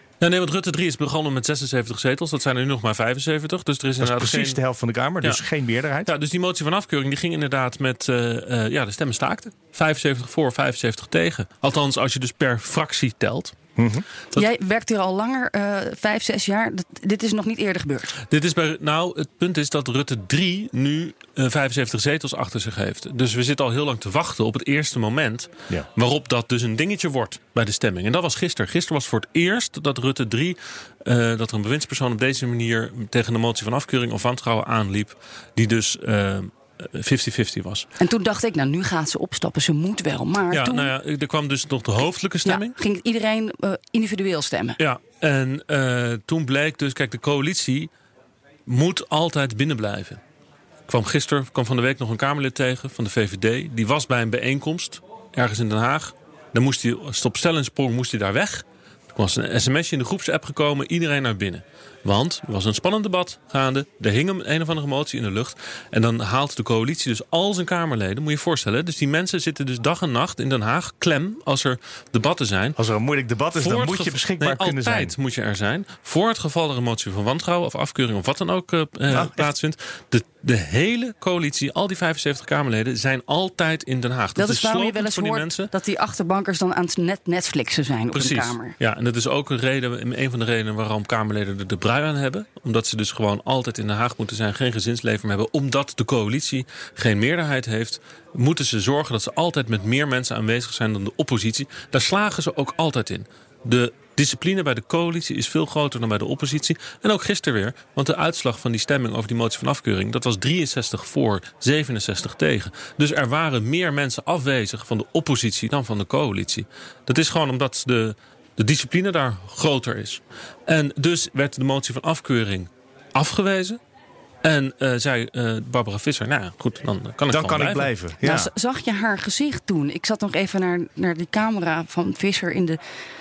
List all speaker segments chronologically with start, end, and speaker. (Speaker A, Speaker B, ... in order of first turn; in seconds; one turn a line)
Speaker A: 0.2-4.6
Speaker B: 4.0-6.1
Speaker A: 6.0-13.5
Speaker B: 13.8-14.1
Speaker C: 14.3-18.1
Speaker A: 18.3-37.9
Speaker C: 38.0-40.9
Speaker A: 40.5-42.7
Speaker C: 42.4-44.8
Speaker A: 44.8-47.9
Speaker A: 48.6-50.2
Speaker A: 50.9-72.8
Speaker B: 72.8-75.1
Speaker A: 73.6-85.7
Speaker B: 79.1-79.5
Speaker C: 84.3-88.7
Speaker A: 88.1-123.8
Speaker A: 124.4-127.9
Speaker B: 127.3-128.5
Speaker C: 128.2-132.8